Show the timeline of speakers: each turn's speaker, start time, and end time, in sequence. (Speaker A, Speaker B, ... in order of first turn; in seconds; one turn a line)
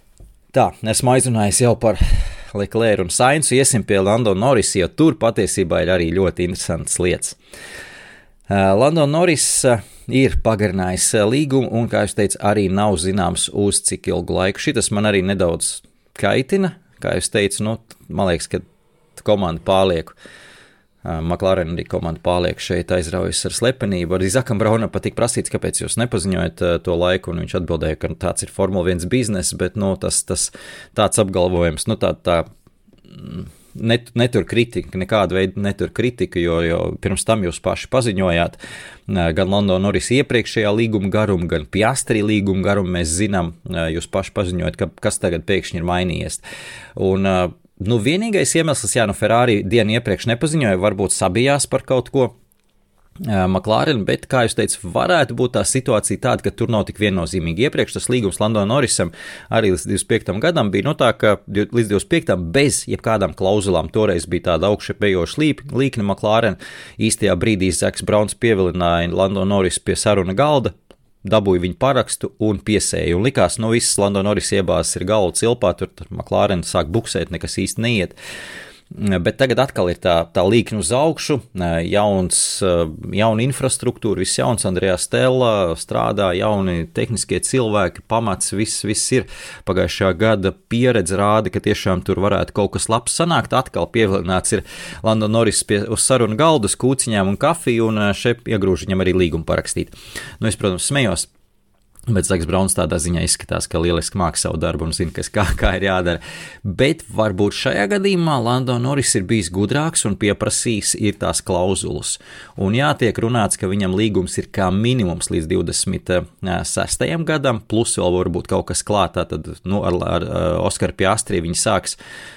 Speaker A: 0.5-7.4
Speaker A: 8.5-18.6
Speaker A: 19.2-20.1
Speaker A: 21.0-32.5
Speaker A: 33.1-46.4
Speaker A: 47.0-52.3
Speaker A: 53.2-70.7
Speaker A: 71.2-78.2
Speaker A: 78.9-101.3
Speaker A: 102.1-122.0